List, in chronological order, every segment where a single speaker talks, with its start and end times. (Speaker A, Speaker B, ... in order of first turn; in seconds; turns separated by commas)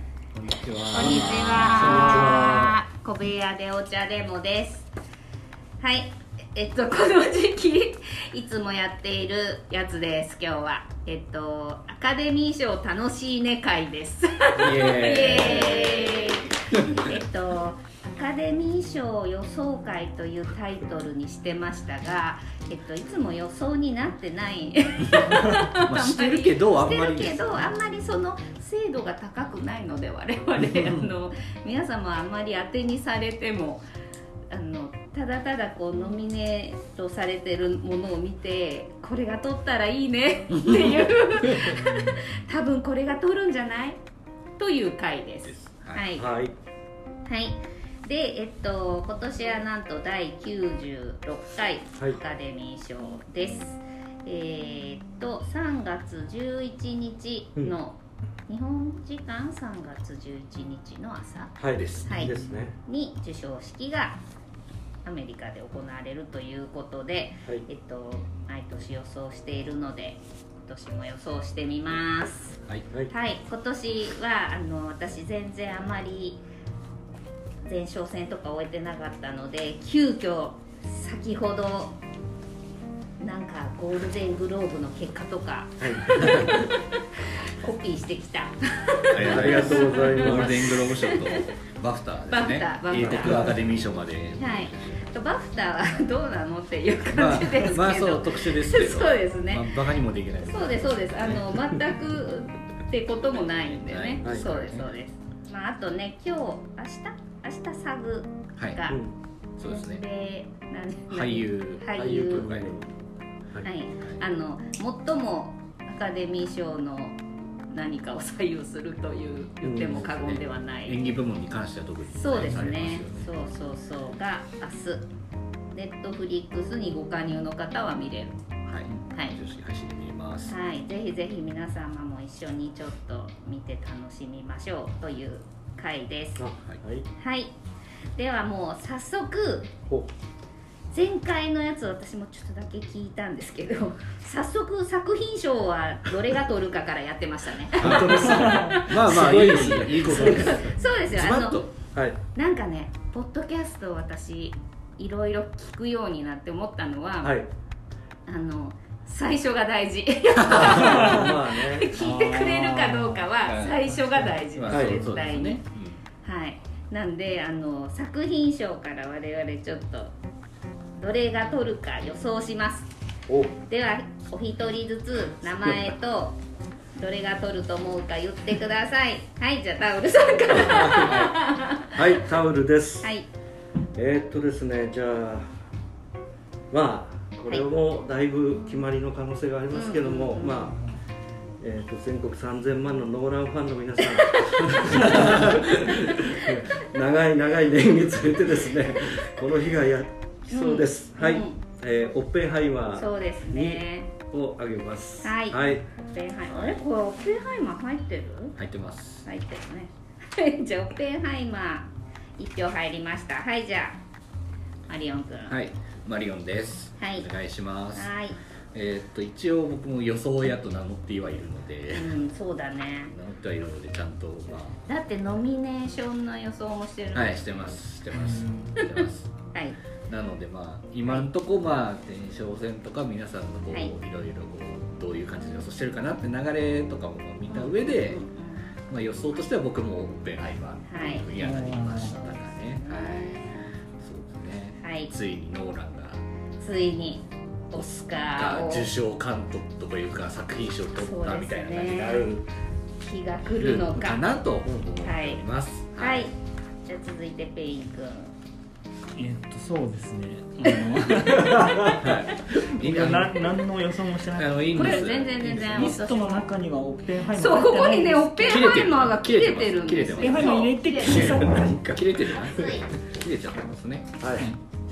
Speaker A: 0.3-2.5, Speaker B: 0.8-2.7, Speaker C: 0.9-4.9, Speaker C: 5.8-33.8, Speaker A: 14.6-17.1, Speaker A: 25.1-27.7, Speaker A: 30.6-31.1, Speaker C: 34.5-44.0, Speaker A: 41.6-41.9, Speaker C: 44.6-46.3, Speaker A: 45.5-46.0, Speaker B: 46.2-46.5, Speaker C: 47.2-61.5, Speaker B: 61.6-62.8, Speaker A: 61.7-62.5, Speaker C: 62.0-64.2, Speaker C: 65.0-76.4, Speaker C: 77.6-82.0, Speaker C: 83.2-91.4, Speaker B: 85.8-86.7, Speaker A: 89.1-95.1, Speaker B: 89.2-90.8, Speaker C: 92.3-93.6, Speaker B: 93.0-93.5, Speaker C: 94.4-99.8, Speaker A: 97.1-101.5, Speaker C: 100.4-109.0, Speaker A: 103.8-104.9, Speaker B: 104.2-104.5, Speaker A: 108.5-108.8, Speaker B: 108.9-109.1, Speaker A: 109.6-110.0, Speaker C: 109.6-112.5, Speaker A: 111.1-112.8, Speaker B: 112.0-112.8, Speaker C: 113.6-121.0, Speaker B: 119.6-120.1, Speaker A: 120.0-123.3, Speaker C: 122.1-125.1, Speaker C: 125.7-128.4, Speaker A: 128.6-130.5, Speaker C: 129.1-129.4, Speaker C: 130.4-136.5, Speaker B: 136.4-137.1, Speaker C: 137.2-137.5, Speaker C: 138.1-139.7, Speaker C: 140.9-148.9, Speaker A: 147.7-151.7, Speaker D: 148.5-148.7, Speaker B: 148.9-150.7, Speaker C: 150.1-151.7, Speaker B: 151.9-152.2, Speaker C: 152.3-157.4, Speaker B: 157.2-157.5, Speaker C: 158.2-165.6, Speaker A: 160.4-161.2, Speaker B: 160.5-161.9, Speaker D: 160.8-161.3, Speaker D: 161.9-163.3, Speaker A: 163.4-166.0, Speaker B: 164.7-165.0, Speaker C: 166.2-170.1, Speaker C: 170.9-172.9, Speaker B: 173.3-173.5, Speaker C: 173.6-176.4, Speaker C: 176.9-182.0, Speaker B: 180.5-183.1, Speaker C: 183.0-183.3, Speaker B: 183.9-185.6, Speaker B: 186.7-190.9, Speaker C: 189.7-190.7, Speaker B: 191.6-205.8, Speaker C: 194.3-194.6, Speaker A: 195.1-195.6, Speaker C: 200.5-201.6, Speaker C: 202.9-204.1, Speaker C: 205.2-208.6, Speaker A: 206.5-206.8, Speaker A: 208.6-209.2, Speaker C: 209.2-214.0, Speaker C: 214.9-215.6, Speaker A: 215.5-218.1, Speaker C: 217.0-217.3, Speaker C: 217.9-218.4, Speaker A: 218.7-222.2, Speaker C: 221.9-223.1, Speaker A: 223.1-224.8, Speaker C: 224.9-227.8, Speaker A: 227.1-229.3, Speaker D: 228.2-228.7, Speaker C: 228.8-229.8, Speaker A: 230.1-238.2, Speaker C: 237.5-238.7, Speaker A: 238.9-246.2, Speaker C: 240.9-241.3, Speaker D: 241.3-242.2, Speaker C: 242.0-243.7, Speaker C: 244.8-245.1, Speaker C: 246.6-248.9, Speaker A: 248.3-252.4, Speaker C: 250.9-252.4, Speaker C: 253.0-254.2, Speaker A: 253.5-256.3, Speaker C: 255.0-255.4, Speaker C: 256.0-258.3, Speaker D: 259.1-268.6, Speaker A: 261.8-263.6, Speaker A: 264.3-266.0, Speaker C: 264.7-266.5, Speaker C: 267.3-271.4, Speaker A: 268.4-274.6, Speaker D: 270.2-271.9, Speaker B: 271.2-272.8, Speaker C: 272.3-272.9, Speaker B: 274.2-274.5